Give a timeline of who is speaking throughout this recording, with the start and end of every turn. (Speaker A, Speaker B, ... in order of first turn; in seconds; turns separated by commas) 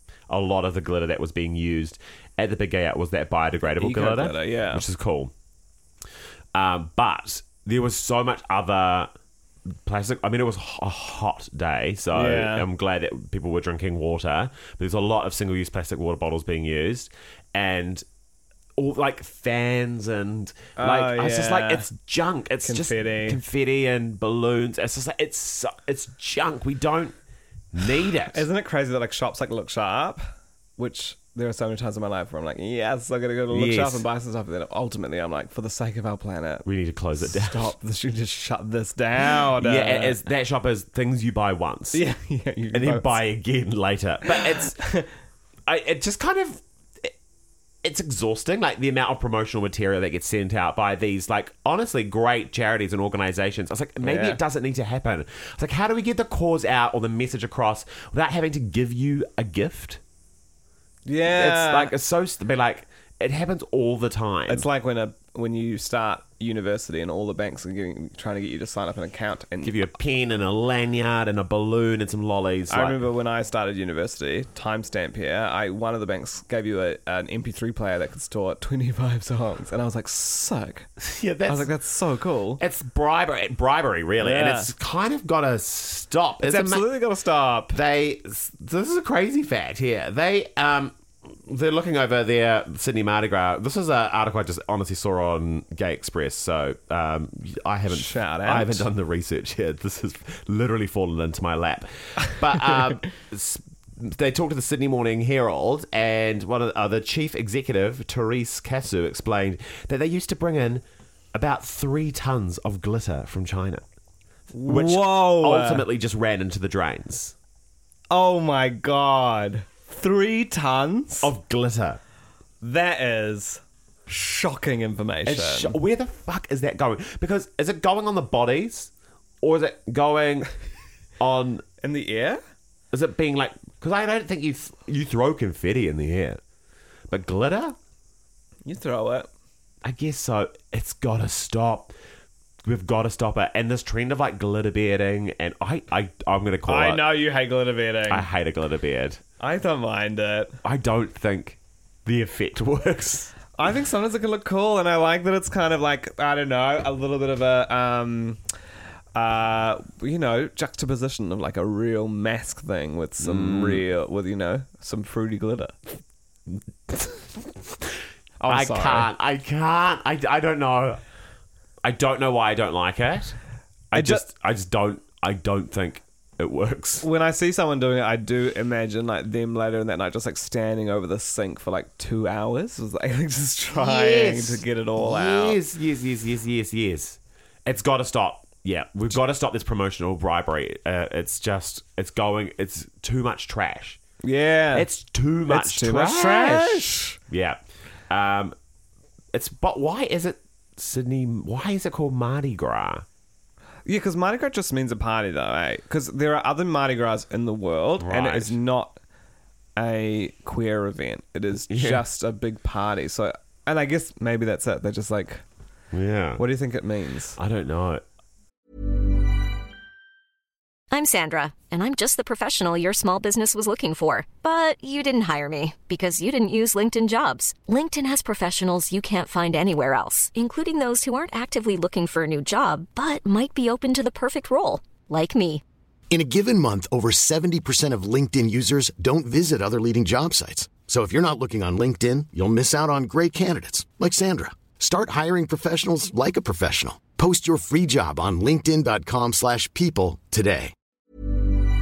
Speaker A: 0.3-5.3, Speaker B: 3.8-4.8, Speaker A: 6.5-9.1, Speaker A: 9.7-18.0, Speaker B: 12.1-12.6, Speaker A: 18.8-27.1, Speaker B: 20.8-21.9, Speaker B: 22.6-23.4, Speaker A: 27.7-28.4, Speaker B: 28.3-30.2, Speaker B: 30.8-36.6, Speaker A: 33.5-34.0, Speaker A: 36.6-37.7, Speaker B: 37.2-40.2, Speaker A: 39.3-42.0, Speaker B: 41.9-43.2, Speaker A: 42.7-44.8, Speaker B: 44.3-45.1, Speaker A: 45.7-47.1, Speaker A: 47.8-60.0, Speaker B: 54.0-54.4, Speaker B: 61.0-61.9, Speaker A: 61.3-64.7, Speaker B: 64.5-69.8, Speaker A: 69.6-73.0, Speaker B: 72.7-80.9, Speaker A: 81.0-81.7, Speaker B: 81.4-82.6, Speaker A: 82.6-86.9, Speaker B: 84.2-84.7, Speaker B: 86.4-87.8, Speaker A: 87.7-113.8, Speaker B: 97.9-98.9, Speaker B: 114.5-115.8, Speaker A: 114.7-117.3, Speaker B: 118.1-121.3, Speaker A: 121.2-122.0, Speaker B: 122.6-125.8, Speaker A: 125.2-128.9, Speaker A: 129.4-130.5, Speaker A: 131.2-131.6, Speaker B: 131.8-132.4, Speaker A: 132.9-136.4, Speaker A: 137.1-137.8, Speaker B: 138.6-139.3, Speaker A: 139.8-141.9, Speaker A: 142.6-147.1, Speaker B: 146.7-148.2, Speaker A: 148.1-149.2, Speaker B: 149.4-150.5, Speaker A: 150.6-153.3, Speaker B: 153.6-158.4, Speaker B: 159.1-165.8, Speaker A: 163.2-163.8, Speaker A: 166.9-171.0, Speaker B: 168.4-169.1, Speaker A: 171.8-173.4, Speaker A: 173.9-177.1, Speaker B: 173.9-174.2, Speaker B: 177.0-185.6, Speaker A: 183.7-194.0, Speaker B: 194.2-194.9, Speaker A: 194.7-197.6, Speaker B: 195.5-197.2, Speaker A: 198.1-198.5, Speaker A: 199.3-203.0, Speaker B: 203.8-209.0, Speaker A: 208.0-208.6, Speaker B: 209.8-215.4, Speaker A: 211.7-212.0, Speaker A: 215.9-216.4, Speaker B: 216.4-217.4, Speaker A: 217.4-218.0, Speaker C: 220.9-235.6, Speaker D: 236.1-250.7